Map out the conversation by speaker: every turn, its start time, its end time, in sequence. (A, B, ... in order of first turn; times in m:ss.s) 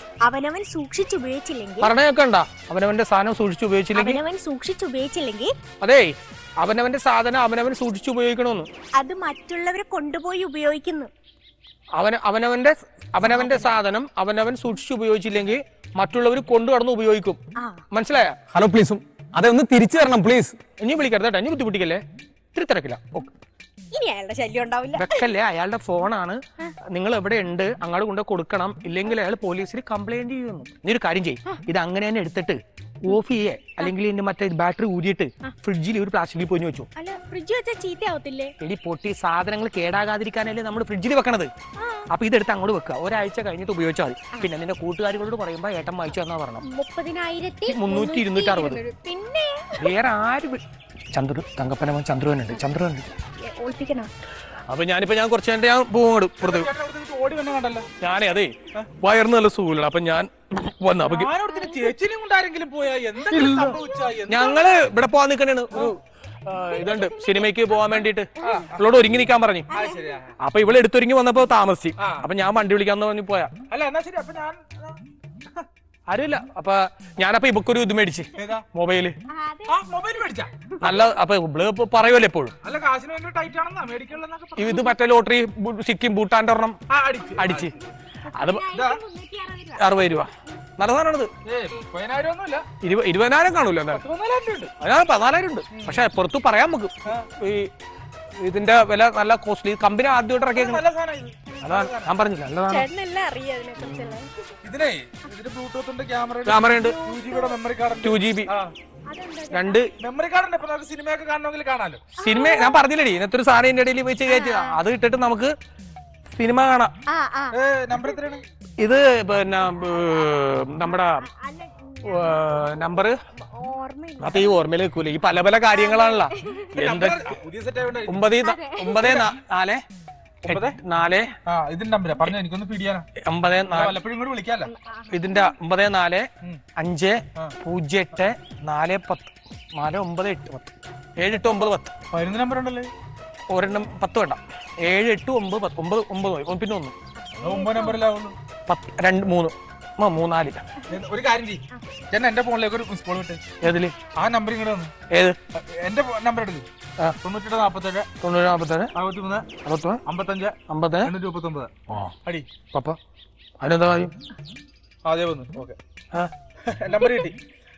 0:00.2-0:01.9 A
0:01.8-0:04.2 B
0:03.9-0:05.5 A
0:05.8-0:08.7 B
0:09.0-0:11.1 A
0:12.0-0:17.4 B
0:13.2-0:13.7 A
0:17.6-0:17.8 A
0:17.9-0:18.4 B
0:18.5-0:20.6 C
0:20.8-0:22.0 B
0:22.5-0:23.3 B
0:23.9-0:25.2 A
0:24.9-0:36.9 B
0:37.0-0:38.5 A
0:38.6-0:41.5 B
0:41.8-0:42.1 A
0:42.1-0:46.6 B
0:46.6-0:49.9 A
0:47.7-0:48.8 B
0:49.8-0:50.6 B
0:51.1-0:53.1 B
0:53.3-0:54.1 A
0:54.7-0:56.7 B
0:56.4-0:57.9 D
0:58.0-1:01.3 B
1:01.0-1:04.6 D
1:01.5-1:01.9 A
1:03.3-1:03.7 B
1:03.3-1:04.5 A
1:04.3-1:09.7 B
1:06.5-1:08.7 A
1:08.4-1:08.9 D
1:09.7-1:10.1 A
1:09.7-1:10.3 D
1:10.4-1:13.5 B
1:12.0-1:12.2 D
1:13.7-1:15.7 D
1:16.1-1:19.2 B
1:18.4-1:18.6 D
1:19.3-1:19.8 A
1:19.7-1:20.5 D
1:20.5-1:21.0 A
1:20.8-1:22.5 B
1:22.6-1:24.8 D
1:24.6-1:26.8 B
1:26.9-1:27.7 D
1:27.4-1:27.7 B
1:28.3-1:30.2 A
1:28.3-1:28.6 B
1:28.7-1:29.0 D
1:29.8-1:31.3 B
1:31.4-1:32.6 D
1:32.8-1:34.0 B
1:33.9-1:34.7 D
1:34.8-1:37.7 B
1:35.7-1:36.0 D
1:38.4-1:40.8 B
1:40.5-1:42.1 D
1:41.6-1:42.9 B
1:42.7-1:44.3 A
1:43.8-1:44.2 B
1:44.6-1:48.7 D
1:46.4-1:47.0 B
1:46.8-1:47.6 A
1:48.0-1:48.5 B
1:49.1-1:49.8 A
1:49.5-1:49.9 B
1:50.0-1:52.0 D
1:52.2-1:55.5 B
1:52.2-1:52.8 A
1:54.3-1:54.8 A
1:56.3-1:56.9 B
1:57.1-1:58.2 A
1:57.5-1:58.4 D
1:58.8-2:01.2 B
2:01.0-2:04.6 A
2:02.0-2:03.2 B
2:04.2-2:07.2 B
2:05.7-2:06.7 A
2:06.7-2:08.2 D
2:08.1-2:09.8 B
2:08.4-2:09.2 A
2:09.0-2:09.3 D
2:10.4-2:10.8 D
2:10.4-2:11.3 B
2:11.4-2:13.1 D
2:13.2-2:14.0 B
2:13.7-2:14.7 D
2:14.6-2:15.5 A
2:15.1-2:21.9 B
2:22.1-2:22.9 D
2:23.5-2:26.9 B
2:27.2-2:28.0 A
2:27.4-2:28.4 D
2:28.7-2:30.6 B
2:30.9-2:33.4 D
2:33.6-2:33.9 B
2:34.2-2:34.9 D
2:35.1-2:35.4 B
2:35.6-2:36.7 D
2:37.2-2:38.1 D
2:38.2-2:38.9 B
2:38.9-2:39.5 D
2:39.6-2:40.0 B
2:40.0-2:41.7 D
2:40.7-2:41.1 B
2:43.6-2:44.1 B
2:45.0-2:45.8 D
2:46.6-2:47.4 D
2:46.9-2:47.3 A